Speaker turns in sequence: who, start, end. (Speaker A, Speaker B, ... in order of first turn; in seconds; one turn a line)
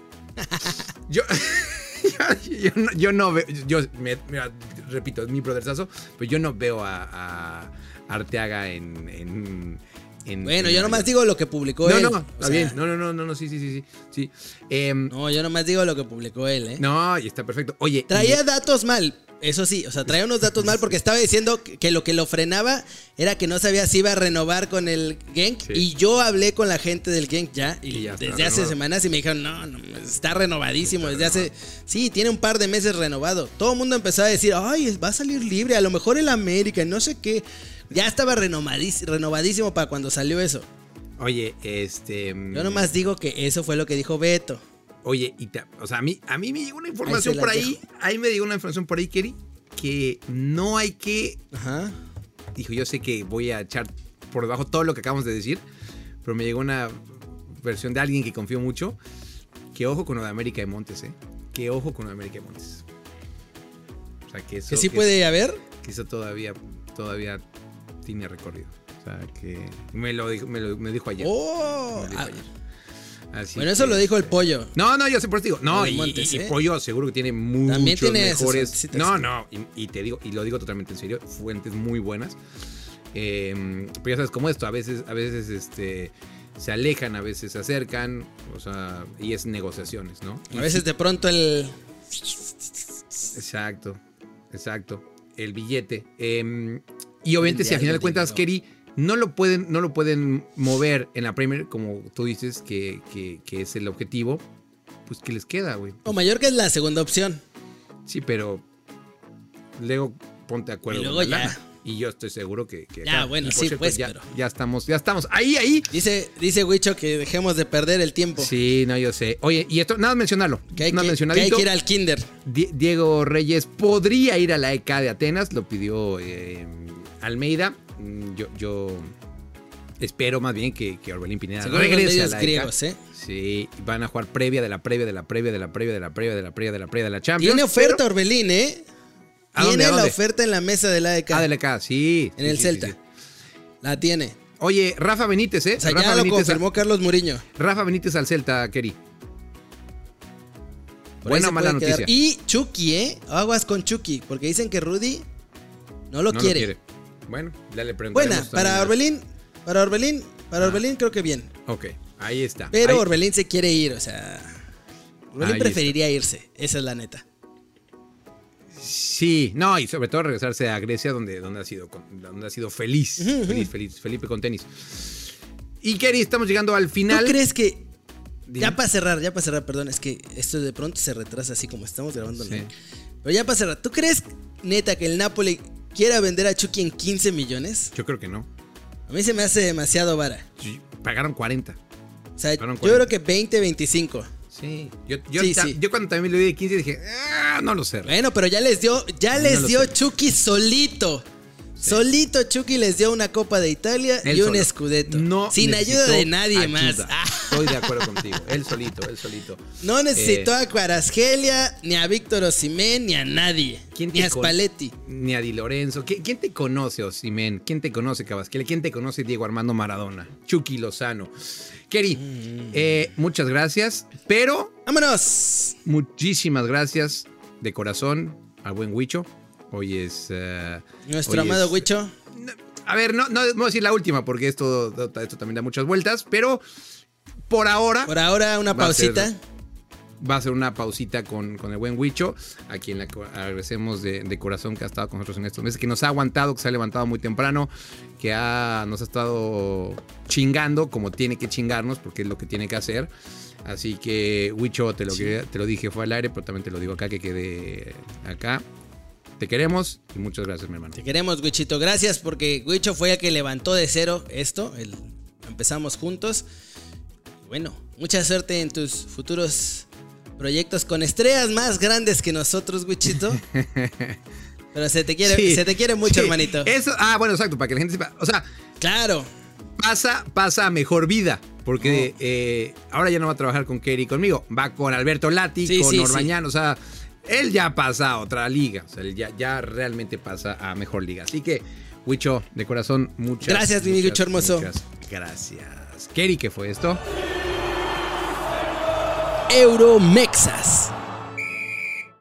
Speaker A: 1.1-11.1
Speaker B: 10.4-12.8
Speaker A: 11.8-15.1
Speaker B: 15.1-16.8
Speaker A: 16.8-18.4
Speaker B: 18.1-40.7
Speaker A: 20.6-20.8
Speaker A: 27.9-28.8
Speaker A: 30.8-31.5
Speaker A: 41.2-42.9
Speaker B: 42.5-44.6
Speaker A: 45.0-51.4
Speaker B: 47.0-47.8
Speaker B: 51.5-52.0
Speaker A: 52.5-55.6
Speaker A: 56.2-59.0
Speaker A: 59.7-62.8
Speaker A: 64.3-65.1
Speaker B: 64.7-65.6
Speaker A: 65.7-67.4
Speaker A: 68.0-71.3
Speaker B: 71.2-72.4
Speaker A: 71.9-72.5
Speaker A: 73.3-82.4
Speaker B: 73.5-74.7
Speaker B: 75.7-76.5
Speaker B: 77.7-79.2
Speaker A: 83.1-90.8
Speaker B: 90.5-92.4
Speaker A: 93.3-94.0
Speaker A: 94.5-104.4
Speaker B: 97.4-98.4
Speaker A: 105.1-106.1
Speaker B: 106.0-107.4
Speaker A: 108.1-108.6
Speaker A: 109.8-115.9
Speaker B: 110.9-111.6
Speaker B: 113.0-114.2
Speaker B: 115.9-118.5
Speaker A: 118.4-121.7
Speaker B: 120.7-122.3
Speaker A: 122.4-129.1
Speaker A: 130.0-138.0
Speaker B: 131.6-133.0
Speaker B: 137.4-138.8
Speaker A: 139.5-140.2
Speaker B: 139.6-141.4
Speaker A: 141.3-143.0
Speaker B: 142.4-142.9
Speaker B: 143.8-144.3
Speaker A: 144.6-146.6
Speaker B: 145.8-147.4
Speaker A: 147.6-149.0
Speaker B: 151.2-155.2
Speaker A: 151.2-152.1
Speaker B: 156.1-156.7
Speaker A: 156.3-158.9
Speaker B: 158.1-161.5
Speaker A: 161.7-163.0
Speaker B: 162.7-164.6
Speaker B: 165.3-167.2
Speaker A: 165.4-165.9
Speaker A: 168.7-175.2
Speaker B: 173.2-173.7
Speaker A: 175.8-177.4
Speaker B: 177.1-177.9
Speaker A: 178.5-178.8
Speaker B: 178.6-182.7
Speaker A: 182.4-182.7
Speaker B: 183.2-187.9
Speaker A: 187.9-188.5
Speaker B: 189.1-190.4
Speaker A: 190.6-191.8
Speaker B: 192.4-194.3
Speaker A: 192.6-193.1
Speaker A: 194.5-198.1
Speaker B: 195.4-195.8
Speaker B: 198.1-201.2
Speaker A: 199.3-199.9
Speaker A: 201.8-202.0
Speaker B: 201.8-208.3
Speaker A: 204.2-209.6
Speaker B: 209.8-214.9
Speaker A: 210.1-210.5
Speaker A: 213.9-221.3
Speaker A: 221.9-224.8
Speaker B: 222.2-222.8
Speaker B: 224.8-225.8
Speaker A: 225.8-236.6
Speaker B: 231.1-232.1
Speaker A: 237.5-238.1
Speaker B: 238.1-239.4
Speaker A: 238.7-239.3
Speaker A: 240.2-253.1
Speaker A: 253.6-258.6
Speaker A: 259.4-261.0
Speaker B: 261.0-266.4
Speaker B: 267.4-269.9
Speaker B: 270.4-273.4
Speaker A: 273.4-274.2
Speaker B: 274.7-276.7
Speaker A: 275.2-278.4
Speaker B: 278.8-279.3
Speaker A: 279.8-297.0
Speaker B: 281.8-282.1
Speaker B: 285.6-286.3
Speaker B: 293.4-294.7
Speaker B: 299.5-300.9